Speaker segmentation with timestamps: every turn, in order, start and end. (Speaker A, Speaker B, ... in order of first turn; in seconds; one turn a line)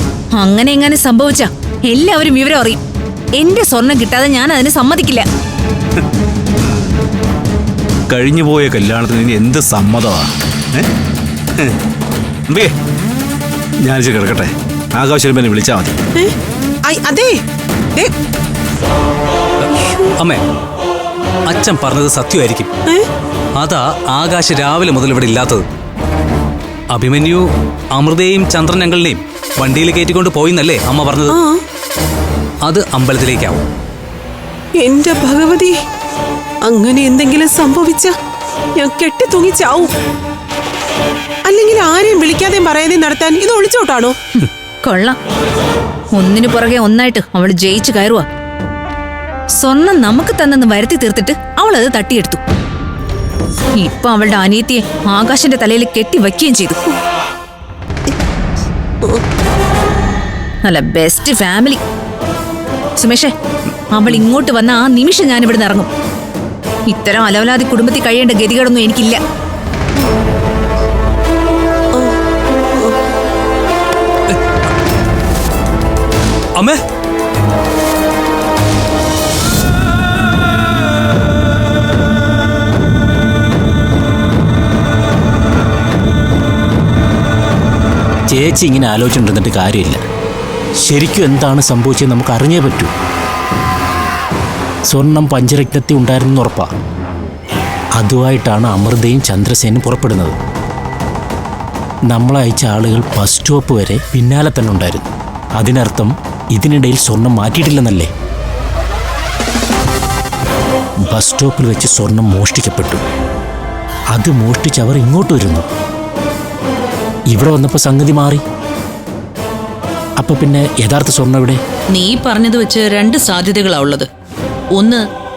Speaker A: 0.3-2.8
Speaker A: 3.4-5.2
Speaker B: 8.1-10.9
Speaker B: 12.5-12.7
Speaker B: 13.8-15.9
Speaker C: 16.9-17.4
Speaker D: 21.5-22.7
Speaker D: 23.6-25.6
Speaker D: 26.9-31.4
Speaker C: 31.3-31.6
Speaker D: 32.6-33.6
Speaker C: 34.8-35.8
Speaker C: 36.6-38.1
Speaker C: 38.8-39.9
Speaker C: 41.5-44.2
Speaker A: 44.4-45.2
Speaker A: 46.1-48.2
Speaker A: 49.6-52.4
Speaker A: 53.8-56.8
Speaker A: 60.6-61.8
Speaker A: 63.0-63.3
Speaker A: 63.9-65.9
Speaker A: 66.9-69.2
Speaker E: 88.3-90.0
Speaker E: 90.8-92.9
Speaker E: 94.9-96.7
Speaker E: 98.0-100.4
Speaker E: 102.1-108.1
Speaker E: 111.1-113.0
Speaker E: 114.2-115.7
Speaker E: 117.3-118.4
Speaker E: 120.2-121.6
Speaker F: 121.9-124.1
Speaker F: 124.8-125.0